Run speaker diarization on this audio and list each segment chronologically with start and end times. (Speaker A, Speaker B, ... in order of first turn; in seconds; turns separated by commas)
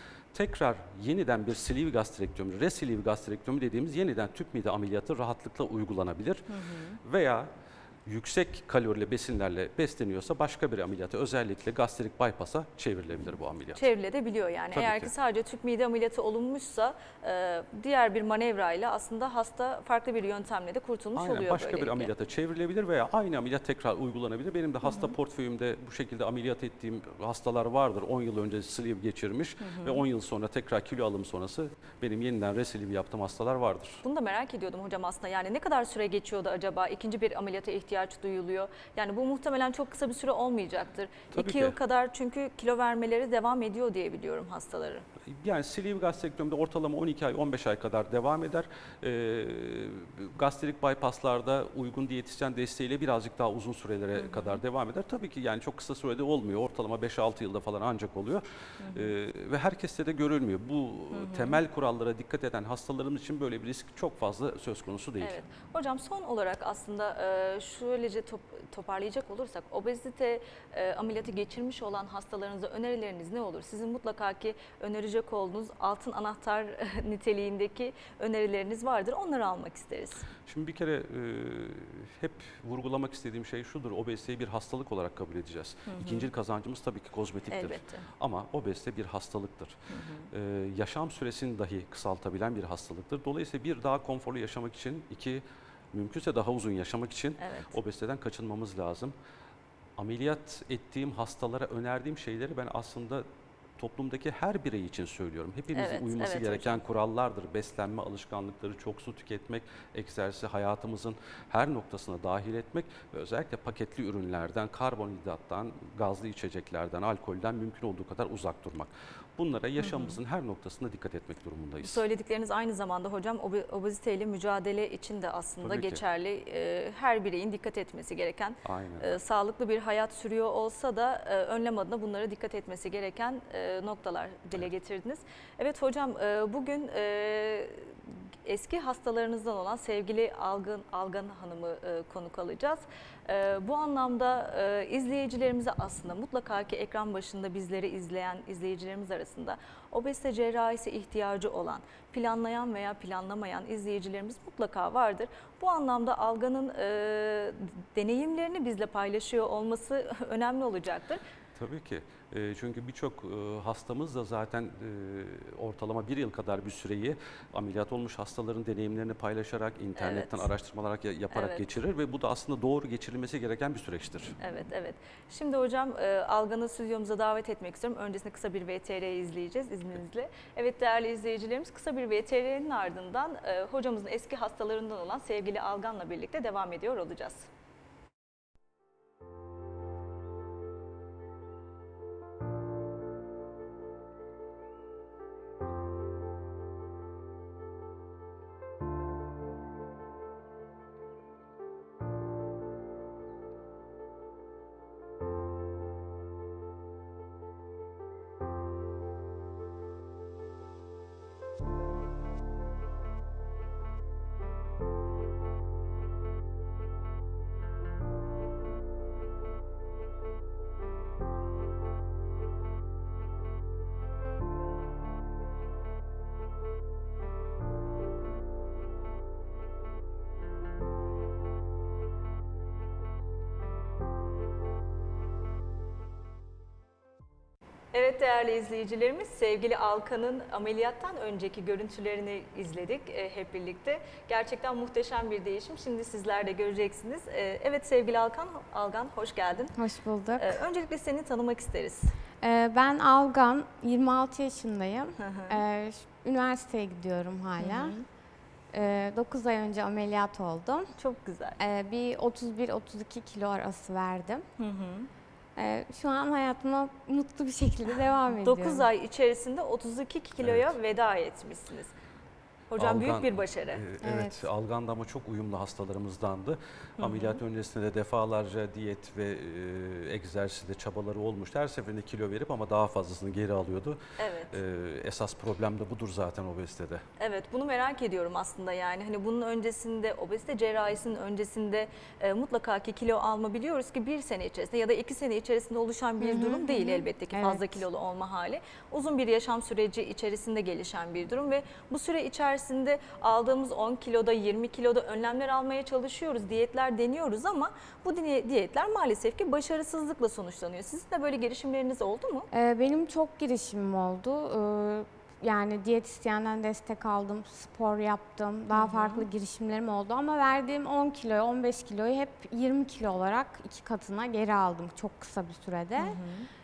Speaker A: 0.3-7.5, Speaker B: 6.5-7.0, Speaker A: 8.1-13.8, Speaker B: 13.8-22.1, Speaker A: 14.7-15.1, Speaker A: 21.1-34.0, Speaker B: 24.9-25.1, Speaker B: 29.6-30.0, Speaker B: 34.0-45.1, Speaker A: 41.3-41.8, Speaker A: 45.2-65.4, Speaker B: 54.2-54.6, Speaker B: 58.8-59.1, Speaker B: 61.1-61.6, Speaker B: 65.2-80.3, Speaker A: 80.5-89.8, Speaker B: 85.9-86.2, Speaker B: 87.5-88.1, Speaker B: 89.9-90.3, Speaker A: 90.3-99.2, Speaker B: 97.4-97.8, Speaker A: 100.0-103.3, Speaker A: 103.8-122.0, Speaker B: 105.7-106.8, Speaker B: 119.8-120.2, Speaker B: 121.8-161.2, Speaker A: 125.6-126.0, Speaker A: 128.6-129.1, Speaker A: 161.6-174.4, Speaker B: 170.0-170.5, Speaker B: 171.3-171.7, Speaker B: 174.4-187.5, Speaker B: 237.9-249.8, Speaker C: 249.8-250.6, Speaker B: 250.4-252.1, Speaker C: 252.4-258.0, Speaker B: 255.2-255.6, Speaker B: 257.6-258.0, Speaker C: 258.7-260.9, Speaker B: 261.0-261.6, Speaker C: 261.6-264.4, Speaker B: 264.6-265.1, Speaker C: 265.6-268.9, Speaker B: 268.4-271.9, Speaker A: 270.4-270.7, Speaker B: 272.7-273.8, Speaker A: 272.8-284.0, Speaker C: 274.0-274.4, Speaker B: 277.0-277.4, Speaker B: 284.2-284.6, Speaker A: 284.5-287.0, Speaker B: 287.2-312.5, Speaker C: 296.2-297.8, Speaker C: 312.5-326.2, Speaker B: 318.7-319.3, Speaker B: 326.0-326.5